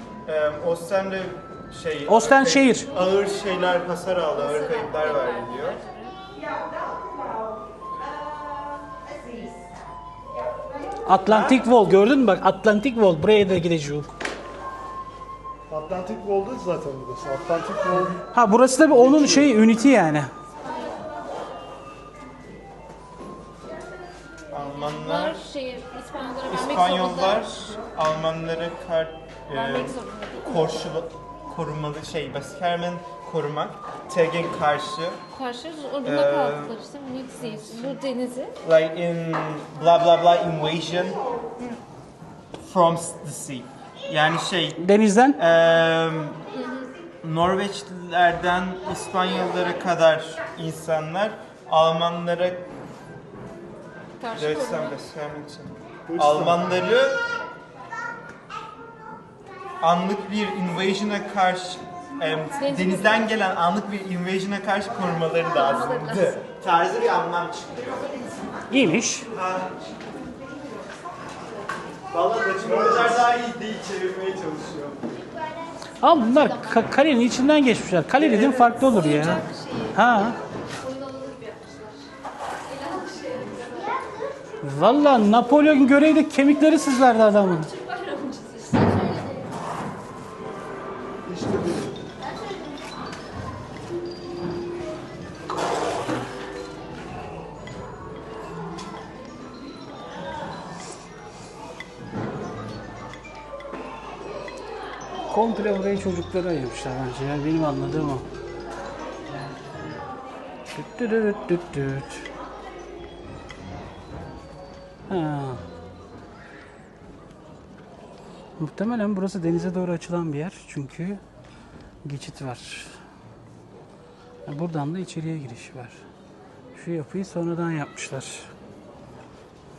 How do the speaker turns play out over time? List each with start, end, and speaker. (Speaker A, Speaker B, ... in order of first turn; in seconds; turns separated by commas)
Speaker A: 0.2-5.8, Speaker B: 2.1-2.9, Speaker C: 4.3-6.2, Speaker B: 11.0-14.1, Speaker A: 11.2-11.6, Speaker D: 15.7-18.2, Speaker B: 18.3-20.3, Speaker A: 24.5-25.4, Speaker C: 24.8-27.5, Speaker A: 26.5-35.2, Speaker C: 29.5-30.7, Speaker C: 35.3-38.5, Speaker A: 36.0-36.8, Speaker A: 38.6-41.2, Speaker A: 42.6-44.8, Speaker B: 44.8-45.4, Speaker A: 45.3-46.4, Speaker C: 46.5-46.9, Speaker A: 47.2-52.6, Speaker C: 54.2-55.0, Speaker A: 54.3-57.2, Speaker D: 56.1-56.6, Speaker A: 59.8-68.1, Speaker C: 62.6-63.3, Speaker C: 65.5-66.4, Speaker B: 68.7-69.3, Speaker A: 69.3-69.8, Speaker A: 72.1-75.1, Speaker B: 76.0-80.4, Speaker A: 78.2-78.7, Speaker C: 78.6-82.0, Speaker C: 82.7-84.0, Speaker B: 84.6-87.7, Speaker C: 87.6-89.4, Speaker D: 91.3-91.8, Speaker B: 105.3-108.2, Speaker B: 110.7-112.3, Speaker B: 115.1-115.6, Speaker B: 118.6-121.2, Speaker B: 122.0-123.0, Speaker B: 124.5-126.0, Speaker B: 126.7-128.5